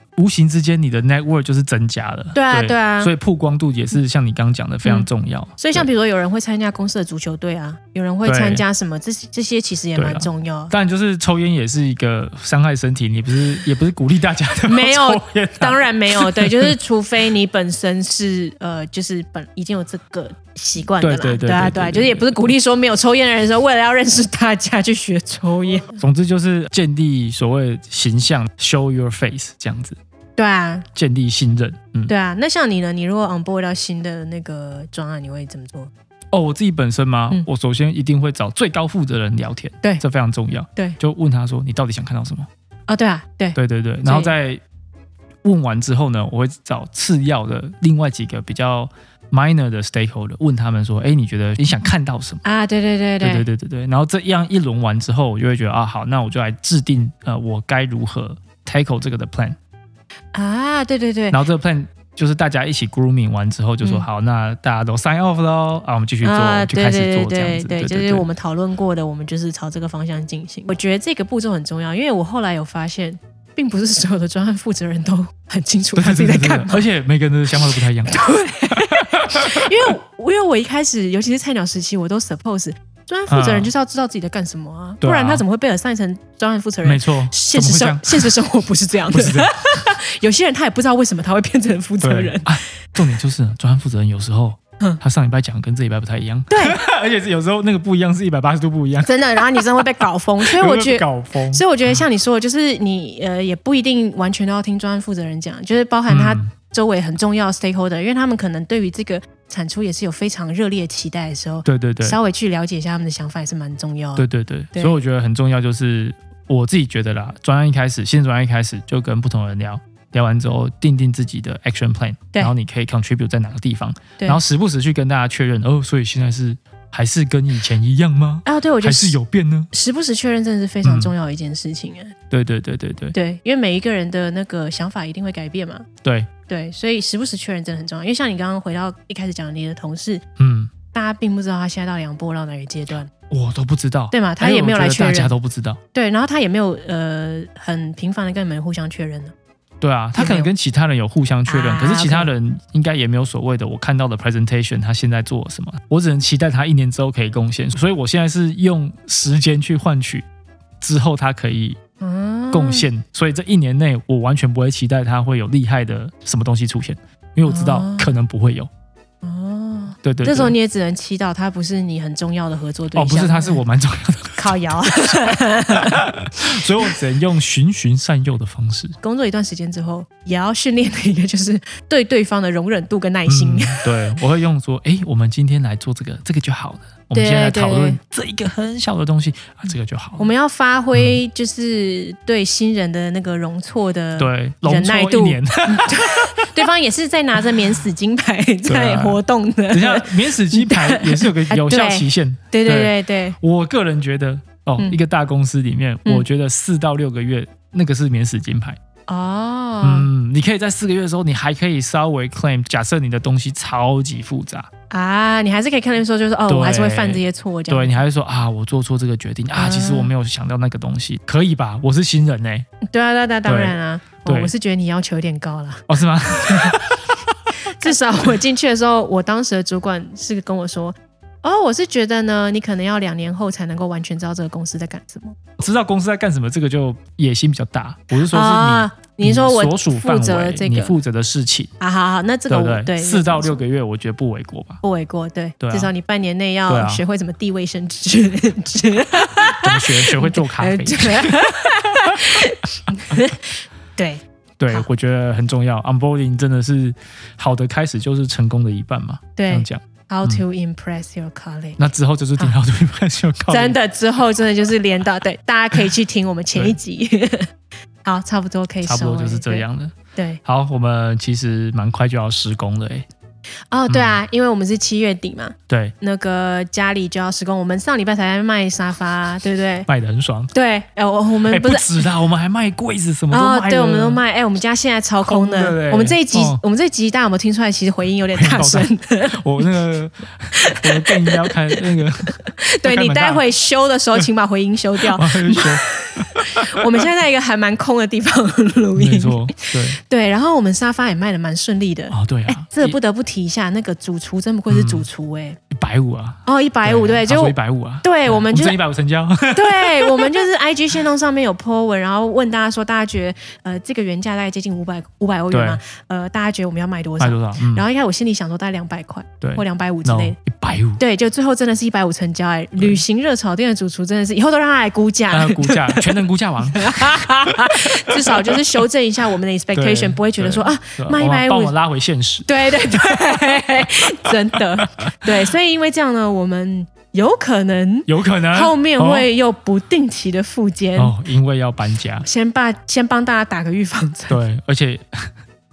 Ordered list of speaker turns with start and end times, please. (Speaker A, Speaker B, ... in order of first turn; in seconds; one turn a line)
Speaker A: 0.2-5.9
Speaker B: 2.3-3.1
Speaker B: 5.6-10.7
Speaker A: 8.2-8.6
Speaker A: 9.9-16.7
Speaker B: 14.7-26.0
Speaker A: 21.0-22.4
Speaker A: 26.0-30.0
Speaker B: 30.4-30.9
Speaker A: 30.9-32.1
Speaker B: 32.1-35.9
Speaker A: 36.3-42.5
Speaker B: 42.9-44.3
Speaker A: 43.5-44.6
Speaker A: 45.4-52.4
Speaker B: 52.4-53.5
Speaker A: 53.2-59.6
Speaker B: 60.3-61.4
Speaker A: 61.3-68.2
Speaker B: 66.2-76.8
Speaker A: 76.0-79.9
Speaker B: 78.1-92.5
Speaker A: 83.3-83.7
Speaker A: 85.0-85.4
Speaker A: 86.8-88.4
Speaker A: 89.1-89.5
Speaker A: 92.0-99.9
Speaker B: 96.5-96.8
Speaker B: 99.0-115.0
Speaker A: 100.4-102.0
Speaker A: 106.1-106.5
Speaker A: 111.7-112.2
Speaker A: 114.2-129.7
Speaker B: 128.4-129.2
Speaker B: 129.7-132.1
Speaker A: 130.8-131.1
Speaker A: 132.3-133.1
Speaker B: 133.1-135.8
Speaker A: 136.0-136.3
Speaker B: 136.5-140.2
Speaker A: 140.4-140.7
Speaker B: 140.9-143.1
Speaker A: 143.3-145.8
Speaker B: 144.1-145.3
Speaker B: 145.9-149.3
Speaker A: 149.8-160.2
Speaker B: 150.2-150.5
Speaker B: 151.5-152.3
Speaker A: 160.8-161.8
Speaker B: 162.0-162.8
Speaker A: 162.5-168.7
Speaker B: 167.4-168.1
Speaker B: 169.2-173.6
Speaker A: 170.0-170.5
Speaker A: 172.9-179.0
Speaker B: 174.4-176.9
Speaker B: 179.0-183.8
Speaker A: 183.3-190.2
Speaker B: 187.1-188.0
Speaker B: 190.2-203.4
Speaker A: 190.9-191.2
Speaker A: 194.2-196.5
Speaker A: 198.6-199.2
Speaker A: 199.7-208.8
Speaker B: 209.1-210.1
Speaker A: 209.8-214.7
Speaker B: 214.9-217.9
Speaker A: 216.5-222.7
Speaker B: 219.6-220.1
Speaker B: 222.8-226.8
Speaker A: 223.4-224.5
Speaker A: 225.9-227.0
Speaker B: 227.6-235.4
Speaker A: 235.6-241.7
Speaker B: 238.2-240.9
Speaker B: 241.8-243.6
Speaker A: 242.5-244.8
Speaker B: 244.8-254.9
Speaker A: 245.6-245.9
Speaker A: 246.7-247.0
Speaker A: 249.4-251.5
Speaker A: 252.9-253.2
Speaker A: 254.6-260.4
Speaker B: 259.4-261.8
Speaker A: 261.8-263.8
Speaker B: 263.5-267.5
Speaker B: 268.0-269.6
Speaker A: 268.8-273.1
Speaker B: 270.1-270.4
Speaker B: 273.7-279.9
Speaker A: 273.9-274.2
Speaker A: 275.7-275.9
Speaker A: 279.9-280.5
Speaker B: 280.5-282.1
Speaker A: 281.5-284.2
Speaker B: 283.3-289.4
Speaker A: 285.2-286.6
Speaker A: 288.3-293.4
Speaker B: 290.5-305.6
Speaker A: 295.0-297.0
Speaker A: 298.9-300.0
Speaker A: 302.1-302.9
Speaker A: 304.7-305.1
Speaker A: 305.7-310.5
Speaker B: 306.4-308.8
Speaker B: 309.5-320.4
Speaker A: 315.5-315.8
Speaker A: 317.2-317.9
Speaker A: 319.4-321.0
Speaker B: 321.0-326.2
Speaker A: 322.8-323.0
Speaker A: 325.3-328.8
Speaker B: 326.7-331.7
Speaker A: 329.7-335.5
Speaker B: 332.5-341.1
Speaker A: 338.1-339.3
Speaker A: 340.9-342.2
Speaker B: 342.2-344.4
Speaker A: 344.3-345.3